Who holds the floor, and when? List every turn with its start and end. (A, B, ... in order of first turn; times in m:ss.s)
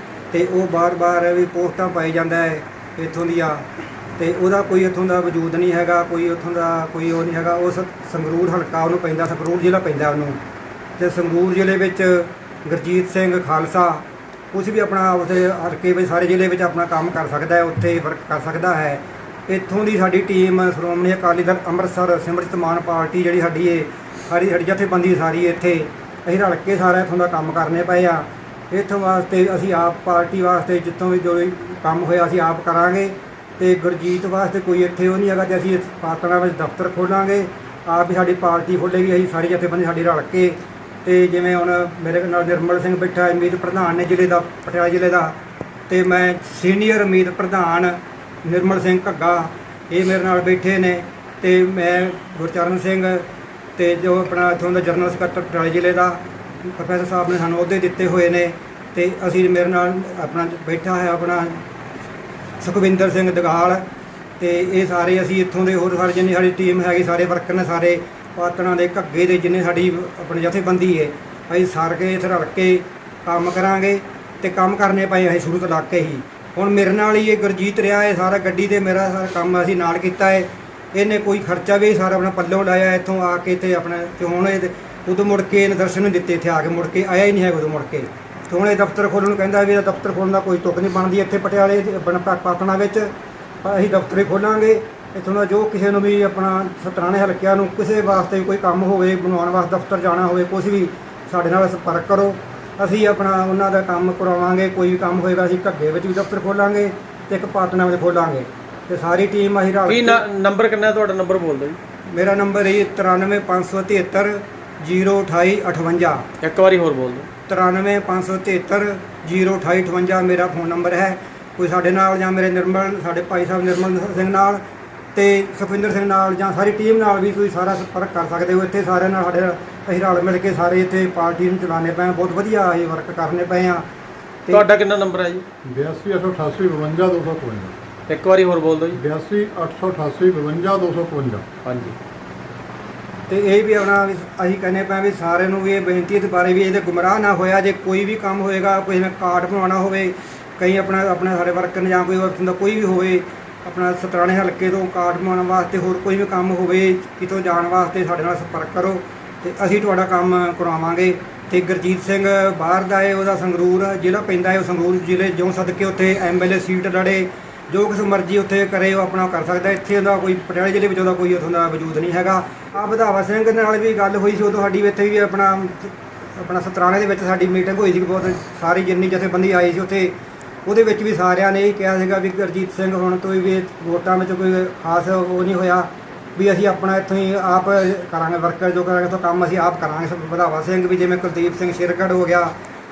0:00.3-0:03.6 A
0:04.2-0:10.4 A
0:11.0-0:45.4 A
0:45.9-0:53.2 A
0:53.8-1:01.6 A
1:02.6-1:03.8 A
1:04.4-1:33.1 A
1:33.6-1:50.2 A
1:49.9-1:51.8 B
1:52.0-1:56.3 A
1:56.4-1:57.3 B
1:57.5-2:04.6 A
2:05.1-2:13.8 A
2:14.5-2:15.4 B
2:15.6-2:17.7 C
2:18.1-2:19.0 B
2:18.9-2:21.4 C
2:21.6-2:22.0 B
2:23.3-3:12.5 A